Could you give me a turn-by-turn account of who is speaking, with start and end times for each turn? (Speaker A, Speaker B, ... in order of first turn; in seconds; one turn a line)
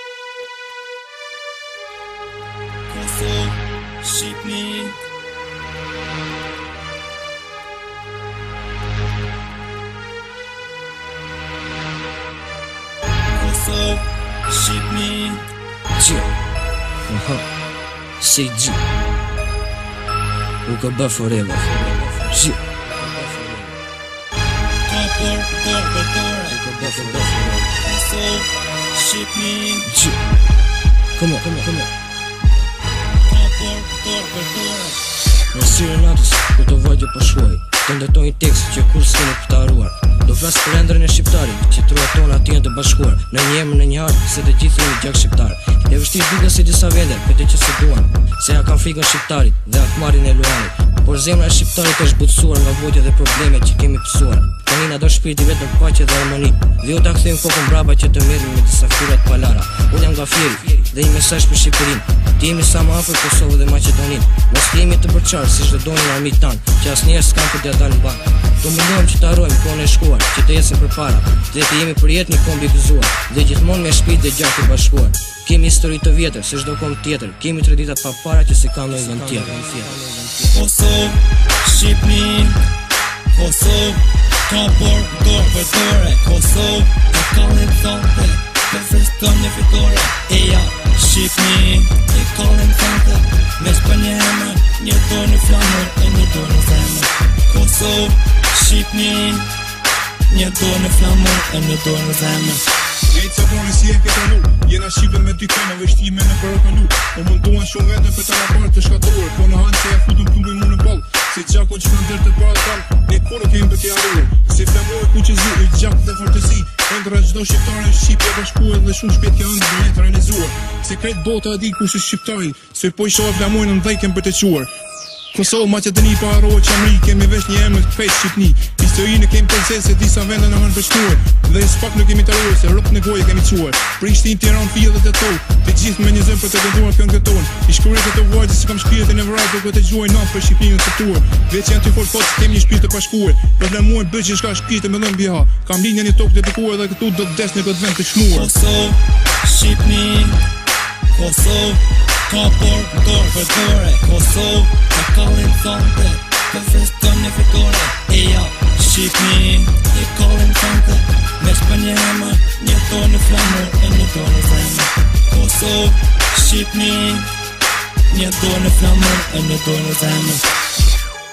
Speaker A: 2.9-5.0
Speaker A: 13.3-15.5
Speaker B: 15.9-16.3
Speaker B: 17.1-17.4
Speaker B: 18.2-18.8
Speaker B: 20.6-23.7
Speaker A: 24.8-29.9
Speaker B: 26.5-27.7
Speaker B: 29.8-30.2
Speaker B: 31.1-31.9
Speaker A: 33.2-35.1
Speaker B: 35.5-80.5
Speaker A: 80.5-82.6
Speaker A: 83.3-99.5
Speaker A: 100.3-102.6
Speaker C: 103.1-124.7
Speaker C: 125.3-148.5
Speaker A: 148.3-150.4
Speaker A: 151.1-167.3
Speaker A: 168.1-170.5